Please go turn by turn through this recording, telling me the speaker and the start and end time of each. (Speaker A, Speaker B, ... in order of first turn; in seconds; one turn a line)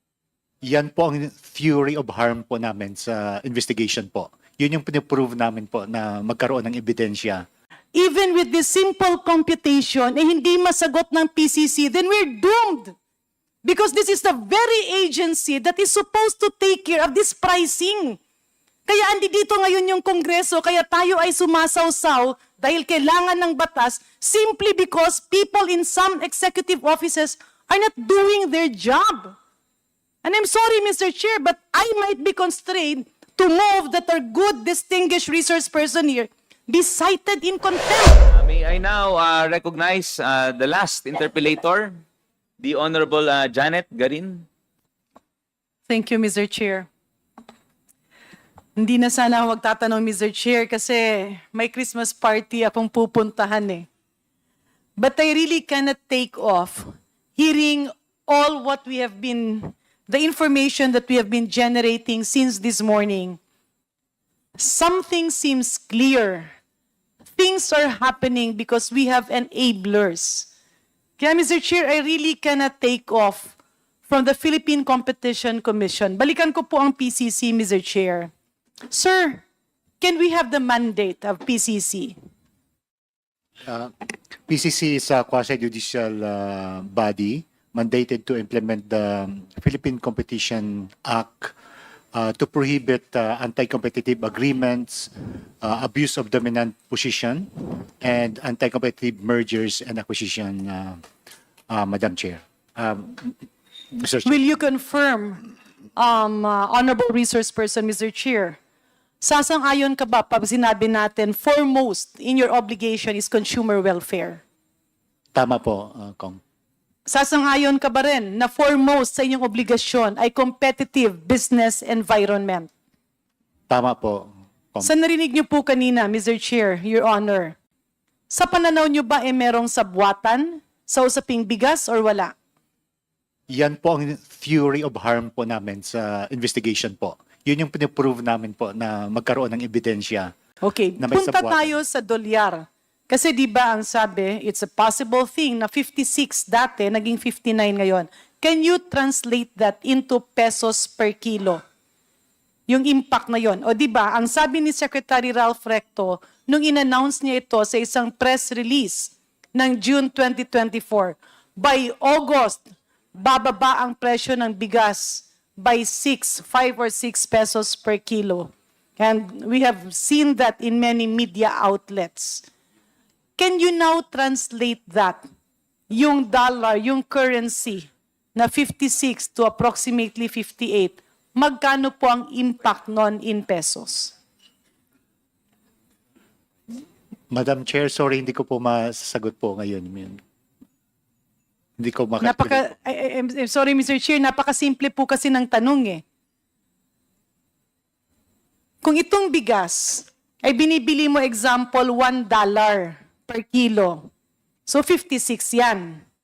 Speaker A: 0.6-7.5
Speaker B: 8.0-12.9
Speaker B: 13.6-18.2
Speaker B: 18.9-29.4
Speaker B: 30.2-38.2
Speaker C: 38.3-42.0
Speaker C: 42.6-44.5
Speaker B: 45.9-46.9
Speaker B: 48.8-53.9
Speaker B: 55.0-63.4
Speaker B: 64.6-66.5
Speaker B: 67.4-70.5
Speaker B: 71.2-73.5
Speaker B: 74.1-78.3
Speaker B: 78.9-79.4
Speaker B: 80.0-82.2
Speaker A: 83.7-83.9
Speaker A: 84.5-91.5
Speaker A: 92.1-101.0
Speaker A: 101.7-103.4
Speaker A: 103.9-104.5
Speaker B: 104.2-105.4
Speaker B: 106.0-108.6
Speaker B: 109.2-114.4
Speaker A: 115.3-116.4
Speaker B: 117.1-122.7
Speaker A: 123.7-124.9
Speaker B: 124.8-127.6
Speaker B: 128.3-132.3
Speaker A: 133.5-140.3
Speaker B: 140.6-151.6
Speaker A: 141.0-141.8
Speaker B: 152.7-172.4
Speaker B: 173.4-175.3
Speaker B: 175.9-184.1
Speaker A: 187.3-190.2
Speaker A: 191.8-192.6
Speaker B: 192.2-196.0
Speaker B: 198.8-204.1
Speaker B: 204.7-206.0